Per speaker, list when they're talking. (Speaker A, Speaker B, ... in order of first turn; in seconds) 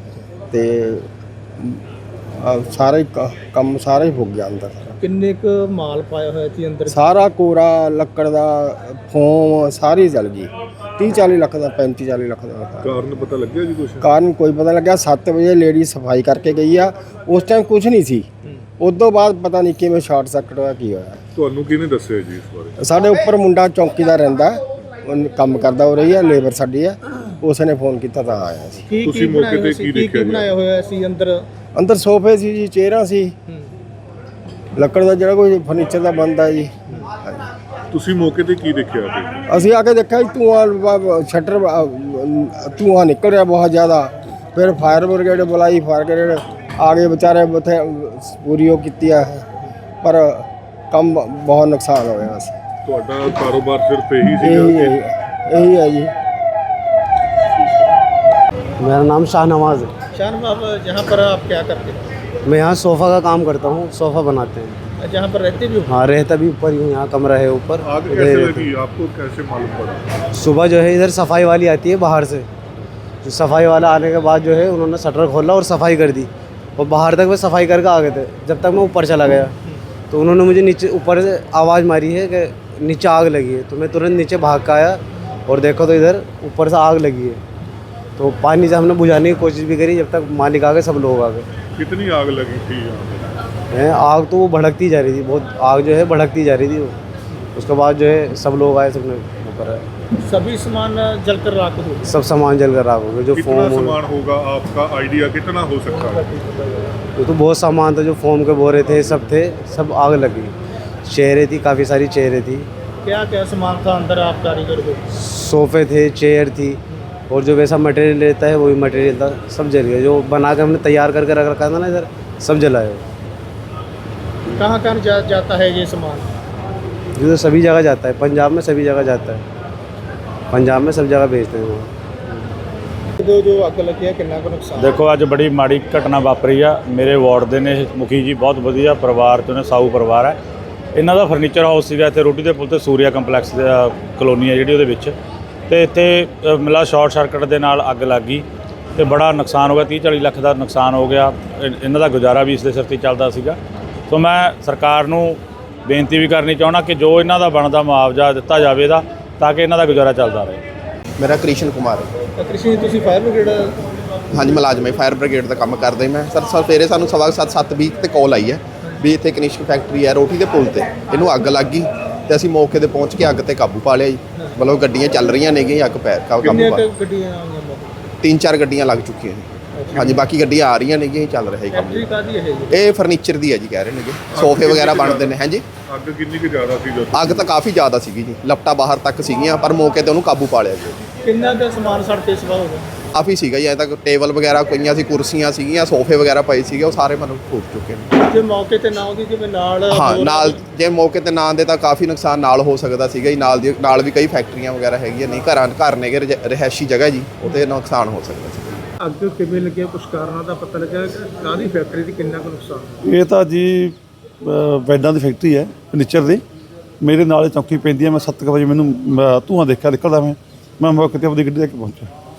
Speaker A: 0.5-1.1, 2.4-4.9, 6.9-12.9, 14.0-18.3, 18.8-21.2, 22.8-28.9, 31.8-33.4, 34.8-37.4, 39.5-49.5, 50.0-52.6, 54.2-56.1
Speaker B: 5.0-7.0, 28.9-31.5, 60.1-62.1, 65.0-66.0, 100.1-102.1, 105.9-107.0, 113.0-115.0, 124.5-126.3, 133.2-135.0, 162.4-163.7, 176.5-178.1, 179.8-180.2, 181.7-182.8, 191.2-192.9, 198.3-200.6, 209.0-213.0
Speaker C: 12.8-14.1, 21.4-22.8, 29.0-30.5, 37.9-39.4, 52.9-55.0, 57.6-57.9, 67.7-70.2, 91.8-93.4, 103.3-106.3, 108.9-109.3, 184.3-187.5
Speaker D: 58.8-59.9, 62.5-64.8, 65.9-68.7, 70.4-72.5, 73.2-79.5, 80.1-87.4, 88.2-91.5, 93.7-97.0, 97.6-99.9, 102.1-104.0, 107.2-110.5, 111.1-112.7, 115.2-123.0, 127.2-129.4, 130.5-131.9
Speaker E: 134.8-140.4, 141.0-145.2, 145.7-148.4, 149.0-153.6, 154.1-160.6
Speaker F: 161.2-162.1, 164.3-176.9, 178.2-185.7, 187.1-191.0, 193.1-198.1, 199.9-208.8
Speaker G: 213.0-216.4, 217.0-222.1